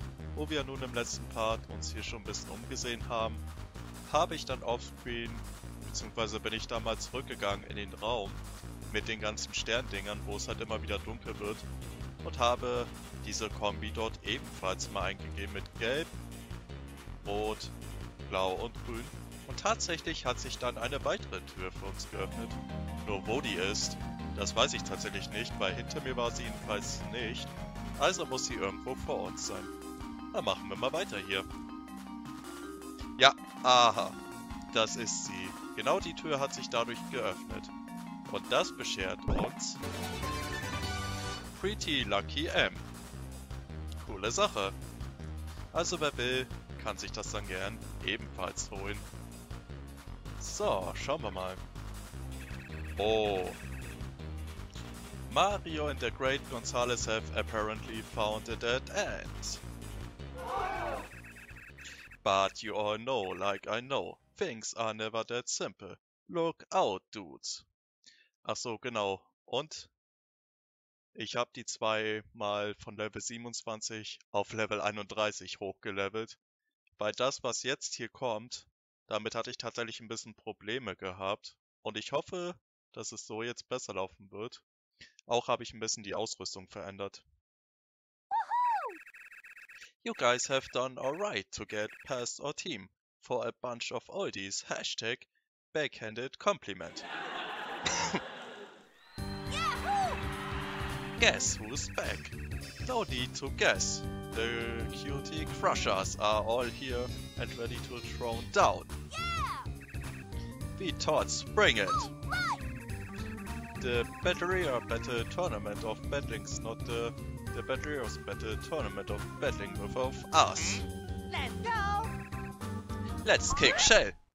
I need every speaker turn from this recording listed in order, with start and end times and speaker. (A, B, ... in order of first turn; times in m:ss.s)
0:00.4-0:03.4 A
0:04.1-0:11.7 A
0:12.2-0:16.1 A
0:17.2-0:17.7 A
0:18.3-0:29.7 A
0:30.3-0:31.4 A
0:33.2-0:34.2 A
0:34.7-0:37.7 A
0:38.3-0:39.8 A
0:41.5-0:42.9 A
0:44.0-0:44.8 A
0:45.7-0:49.1 A
0:50.4-0:51.6 A
0:53.0-0:53.6 A
0:55.3-0:59.6 A
1:02.2-1:07.7 A
1:08.4-1:09.9 A
1:11.2-1:16.4 A
1:17.0-1:24.6 A
1:25.3-1:27.2 A
1:28.4-1:29.0 B
1:30.0-1:37.1 A
1:37.9-1:38.2 A
1:39.5-1:40.3 B
1:41.2-1:48.9 A
1:49.1-1:49.7 B
1:50.8-1:52.1 A
1:51.8-1:52.7 B
1:53.8-2:00.8 A
2:00.6-2:02.1 B
2:03.2-2:04.2 A
2:03.5-2:03.9 B